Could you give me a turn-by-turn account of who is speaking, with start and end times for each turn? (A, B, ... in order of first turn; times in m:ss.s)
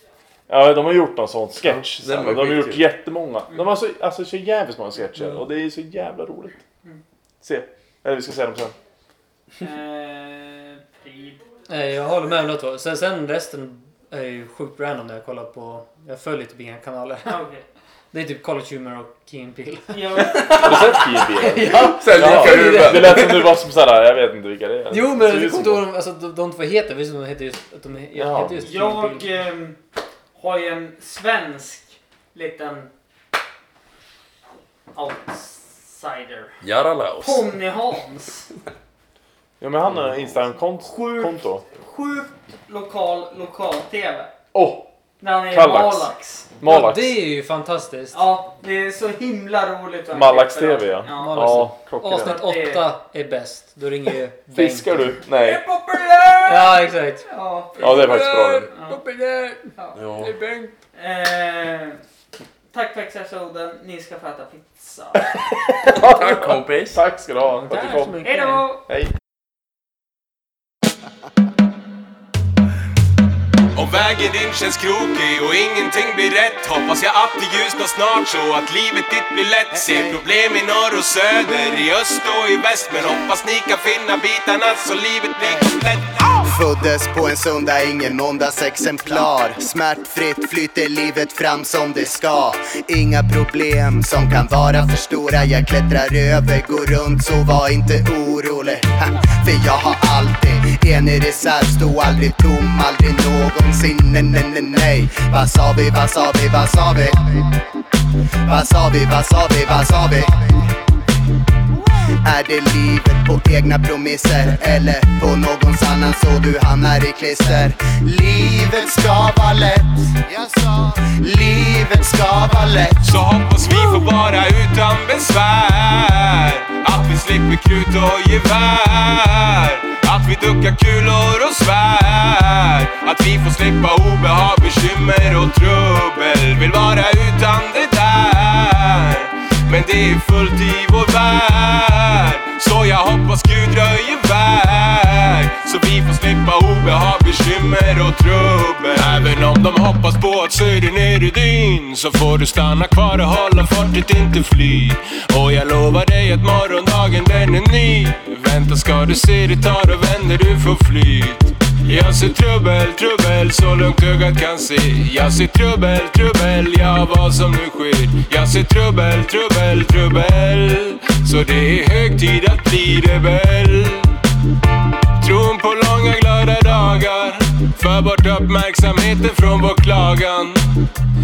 0:00.5-0:06.6 A
0:01.8-0:02.8 B
0:07.4-0:08.8 A
0:09.6-0:11.4 C
0:11.7-0:17.4 D
0:17.2-0:17.6 C
0:18.1-0:23.4 D
0:19.9-0:21.0 C
0:20.4-0:20.7 B
0:20.5-0:25.9 A
0:21.6-0:23.5 B
0:24.9-0:29.3 D
0:28.1-0:28.6 A
0:28.6-0:29.8 C
0:30.4-0:32.9 C
0:35.0-0:36.6 C
0:36.6-0:37.6 B
0:37.2-0:38.5 C
0:39.6-0:41.6 A
0:40.9-0:44.3 C
0:44.5-0:44.9 A
0:45.2-0:46.5 C
0:45.5-0:47.2 A
0:46.6-0:48.2 D
0:48.1-0:52.9 C
0:50.1-0:52.4 A
0:51.2-0:55.1 D
0:54.5-0:55.6 A
0:55.4-0:59.0 C
0:56.5-0:57.3 D
0:57.8-0:59.7 D
0:57.8-0:58.7 A
1:00.0-1:00.4 B
1:00.2-1:00.7 D
1:00.9-1:02.0 C
1:02.7-1:05.4 C
1:05.2-1:08.2 A
1:05.9-1:07.0 B
1:07.7-1:08.7 D
1:08.2-1:08.8 C
1:08.8-1:09.1 A
1:13.8-1:26.5 E
1:26.4-1:47.5 F
1:48.4-1:50.7 F
1:52.1-2:03.1 F
2:03.0-2:54.2 E
2:55.2-3:00.6 E